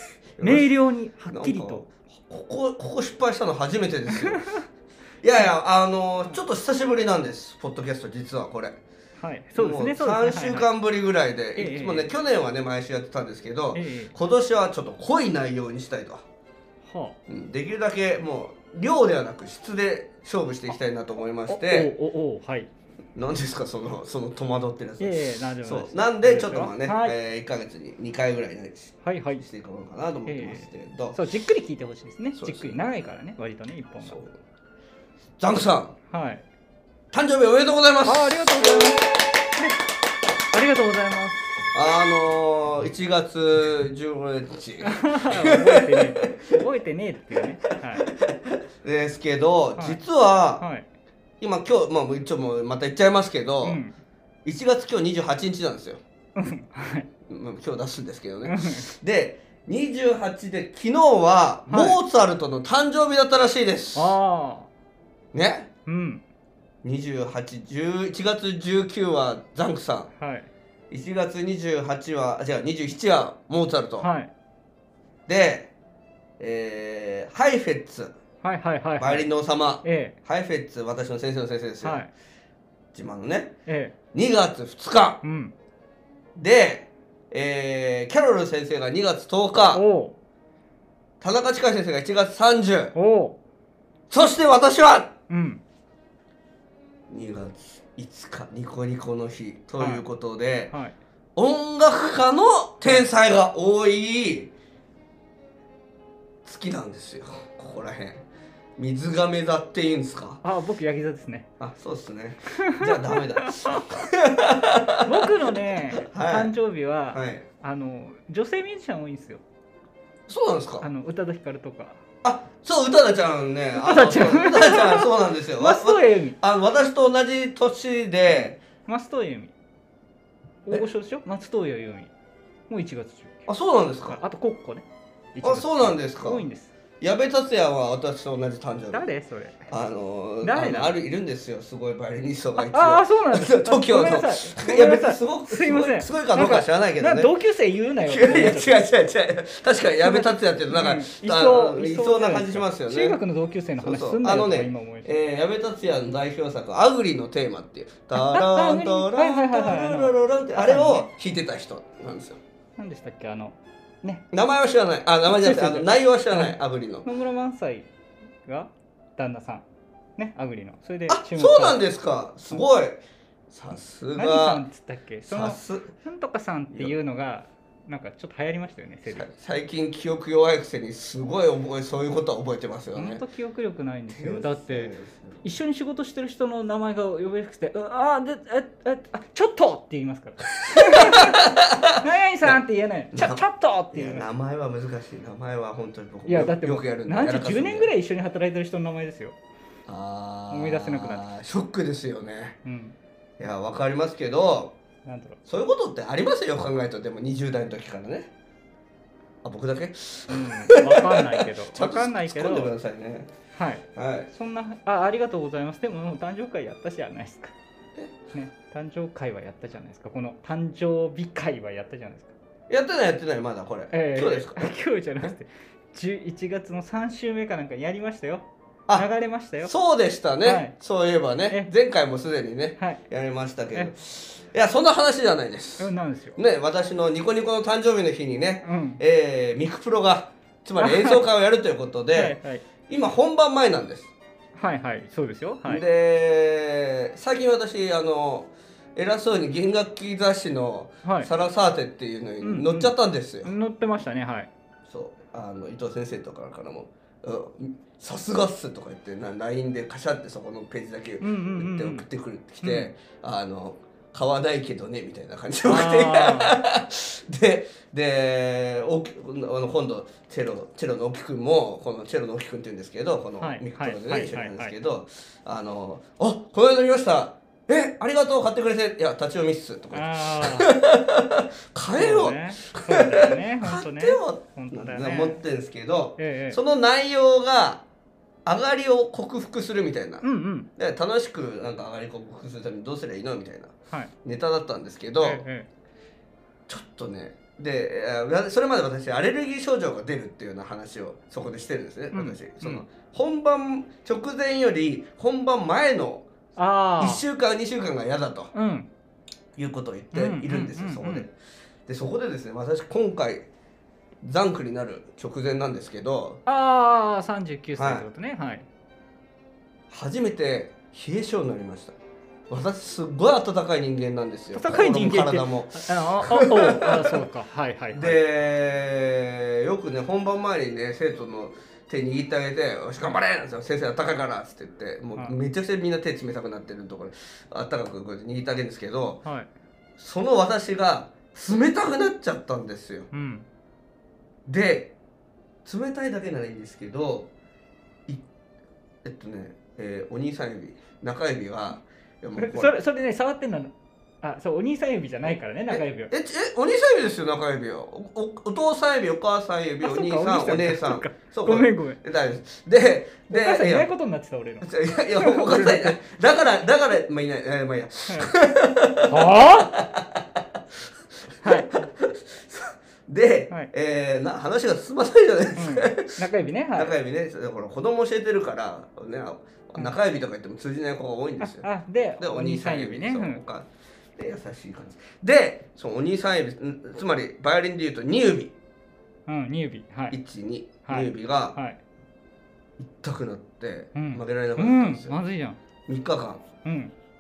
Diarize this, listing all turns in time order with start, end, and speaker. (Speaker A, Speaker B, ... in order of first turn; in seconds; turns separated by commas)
Speaker A: 0.4-0.7, Speaker B: 0.4-1.8, Speaker A: 1.3-4.5, Speaker B: 4.1-4.5, Speaker A: 5.2-8.8, Speaker B: 9.2-10.7, Speaker A: 9.6-16.2, Speaker B: 11.6-12.1, Speaker B: 13.7-14.1, Speaker B: 16.8-17.2, Speaker A: 17.3-21.9, Speaker B: 21.5-22.7, Speaker A: 23.2-31.2, Speaker B: 25.0-27.2, Speaker B: 29.0-29.4, Speaker B: 30.3-34.2, Speaker A: 32.4-32.8, Speaker A: 34.0-34.4, Speaker A: 35.4-36.0, Speaker B: 36.1-36.4, Speaker A: 37.1-38.8, Speaker B: 38.0-39.8, Speaker B: 40.5-41.5, Speaker A: 41.7-46.6, Speaker B: 44.8-48.0, Speaker A: 47.6-50.6, Speaker B: 49.8-50.0, Speaker B: 50.6-50.9, Speaker A: 51.4-53.8, Speaker B: 53.6-54.0, Speaker A: 54.5-56.0, Speaker B: 56.4-57.1, Speaker A: 57.3-64.2, Speaker B: 58.5-58.9, Speaker B: 61.7-62.0, Speaker B: 64.0-64.7, Speaker A: 65.3-65.7, Speaker B: 65.9-66.2, Speaker A: 66.8-70.1, Speaker B: 70.2-70.5, Speaker A: 70.9-74.1, Speaker B: 74.0-74.3, Speaker A: 75.3-75.7, Speaker A: 76.4-78.2, Speaker B: 78.4-79.3, Speaker A: 79.0-82.1, Speaker B: 79.8-80.2, Speaker B: 81.8-82.1, Speaker A: 82.9-83.5, Speaker B: 83.7-84.0, Speaker A: 84.1-85.2, Speaker B: 85.2-85.5, Speaker A: 86.4-89.8, Speaker B: 89.7-90.2, Speaker A: 91.2-92.9, Speaker B: 93.0-93.4, Speaker A: 94.1-95.1, Speaker B: 95.3-95.6, Speaker A: 97.1-100.7, Speaker B: 99.8-100.0, Speaker A: 101.4-104.5, Speaker A: 106.5-108.2, Speaker A: 108.8-110.4, Speaker B: 110.4-111.5, Speaker A: 111.6-115.4, Speaker B: 112.7-113.9, Speaker B: 115.0-119.4, Speaker A: 115.9-116.5, Speaker A: 117.1-117.5, Speaker A: 120.3-120.9, Speaker B: 120.8-122.0, Speaker A: 122.2-128.6, Speaker B: 123.8-126.4, Speaker B: 128.3-129.5, Speaker B: 130.7-132.1, Speaker B: 132.7-133.4, Speaker A: 133.5-134.2, Speaker B: 134.1-136.7, Speaker A: 135.4-136.4, Speaker A: 137.0-139.1, Speaker B: 138.9-139.7, Speaker A: 139.7-147.3, Speaker B: 140.4-141.0, Speaker B: 142.6-148.8, Speaker A: 148.1-153.2, Speaker B: 150.0-155.1, Speaker A: 153.8-162.4, Speaker B: 158.1-161.1, Speaker B: 162.8-164.2, Speaker A: 164.3-167.1, Speaker B: 165.3-167.9, Speaker B: 168.4-169.7, Speaker B: 170.2-171.8, Speaker A: 171.1-174.7, Speaker B: 174.2-179.3, Speaker A: 175.3-175.9, Speaker A: 179.1-183.2, Speaker B: 182.9-194.3, Speaker A: 184.1-185.4, Speaker A: 190.6-192.6, Speaker A: 193.1-197.9, Speaker B: 196.3-199.4, Speaker A: 199.9-202.6, Speaker B: 200.5-201.3, Speaker B: 202.7-203.0, Speaker A: 203.4-204.8, Speaker B: 205.1-205.4, Speaker A: 205.5-208.3, Speaker A: 209.4-213.3, Speaker B: 210.3-212.7, Speaker B: 213.5-217.6, Speaker A: 214.0-214.3, Speaker B: 218.3-222.3, Speaker A: 222.7-224.6, Speaker B: 223.9-229.7, Speaker A: 229.6-244.1, Speaker B: 230.4-230.8, Speaker B: 235.8-236.4, Speaker B: 238.6-239.0, Speaker B: 240.8-241.2, Speaker B: 242.1-242.6, Speaker B: 244.6-245.8, Speaker A: 245.7-253.5, Speaker B: 251.0-251.3, Speaker B: 252.4-254.5, Speaker A: 254.9-287.8, Speaker B: 261.2-262.1, Speaker B: 262.6-262.9, Speaker B: 265.6-266.6, Speaker B: 273.4-274.8, Speaker B: 279.9-280.8, Speaker B: 282.0-285.4, Speaker B: 286.2-286.6, Speaker A: 288.5-290.2, Speaker B: 290.2-290.7, Speaker A: 290.8-295.4, Speaker B: 295.2-295.7, Speaker A: 296.7-306.3, Speaker B: 302.1-302.9, Speaker B: 306.6-307.2, Speaker A: 307.0-308.5, Speaker B: 308.5-308.9, Speaker A: 309.6-311.3, Speaker B: 310.1-311.3, Speaker A: 311.9-313.5, Speaker A: 314.2-316.4, Speaker B: 316.5-318.7, Speaker A: 317.8-318.1, Speaker A: 319.9-321.9, Speaker A: 322.5-327.2, Speaker B: 324.5-328.2, Speaker A: 327.9-339.2, Speaker B: 339.2-339.5, Speaker A: 340.0-343.1, Speaker B: 343.1-343.5, Speaker A: 344.5-344.9, Speaker A: 345.6-347.3, Speaker A: 349.0-352.8, Speaker B: 352.4-356.1, Speaker A: 355.7-363.9, Speaker B: 359.8-362.0, Speaker B: 363.3-366.0, Speaker A: 364.6-370.4, Speaker B: 369.1-369.8, Speaker A: 371.3-388.5, Speaker B: 371.4-371.8, Speaker B: 375.6-377.0, Speaker B: 381.4-383.4, Speaker B: 389.3-390.2, Speaker A: 390.1-391.6, Speaker B: 390.9-391.8, Speaker A: 392.8-395.2, Speaker B: 393.9-395.6, Speaker A: 395.9-396.4, Speaker B: 396.6-396.9